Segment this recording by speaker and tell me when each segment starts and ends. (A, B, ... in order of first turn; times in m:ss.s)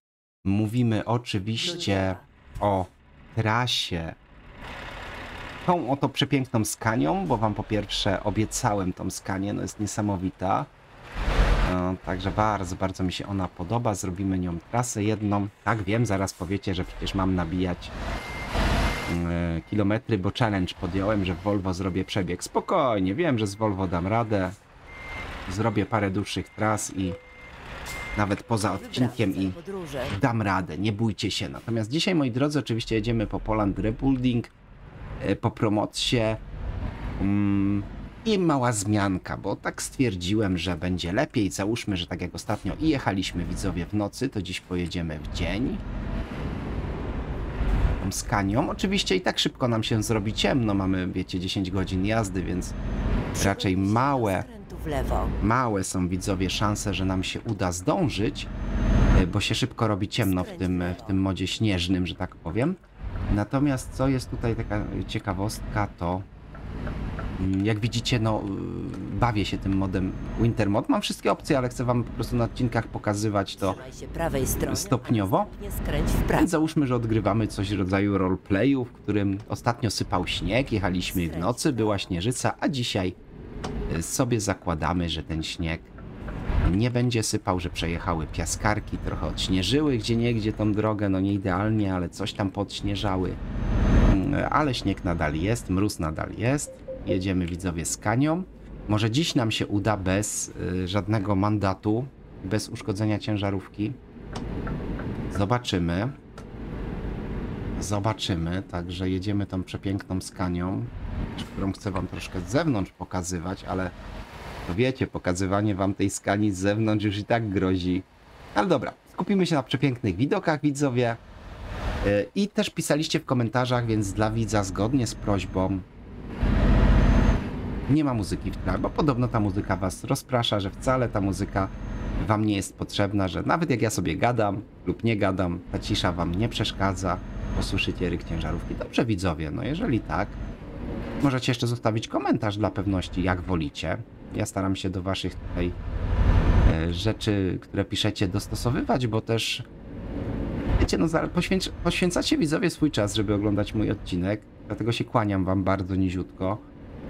0:00.4-0:04.2 A
0:01.6-0:02.2 B
0:05.6-0:10.7 A
0:11.6-0:17.9 A
0:19.1-0:24.6 A
0:25.5-0:27.2 A
0:28.2-0:29.6 A
0:28.6-0:30.1 B
0:30.1-0:34.5 A
0:35.2-0:36.4 A
0:37.2-0:45.8 A
0:48.0-0:52.8 A
0:53.3-0:55.3 B
0:53.4-0:54.5 A
0:55.4-0:58.5 A
0:59.2-1:02.8 A
1:00.2-1:01.2 B
1:03.3-1:06.3 A
1:07.4-1:13.8 A
1:13.5-1:16.6 B
1:14.6-1:15.5 A
1:16.4-1:23.2 A
1:21.1-1:22.2 B
1:23.9-1:25.9 A
1:26.6-1:33.4 A
1:34.1-1:44.0 A
1:45.3-1:46.2 A
1:47.8-1:53.9 A
1:54.7-2:01.2 A
2:02.0-2:05.9 A
2:07.9-2:20.4 A
2:21.2-2:25.8 A
2:26.6-2:29.6 A
2:30.8-2:36.6 A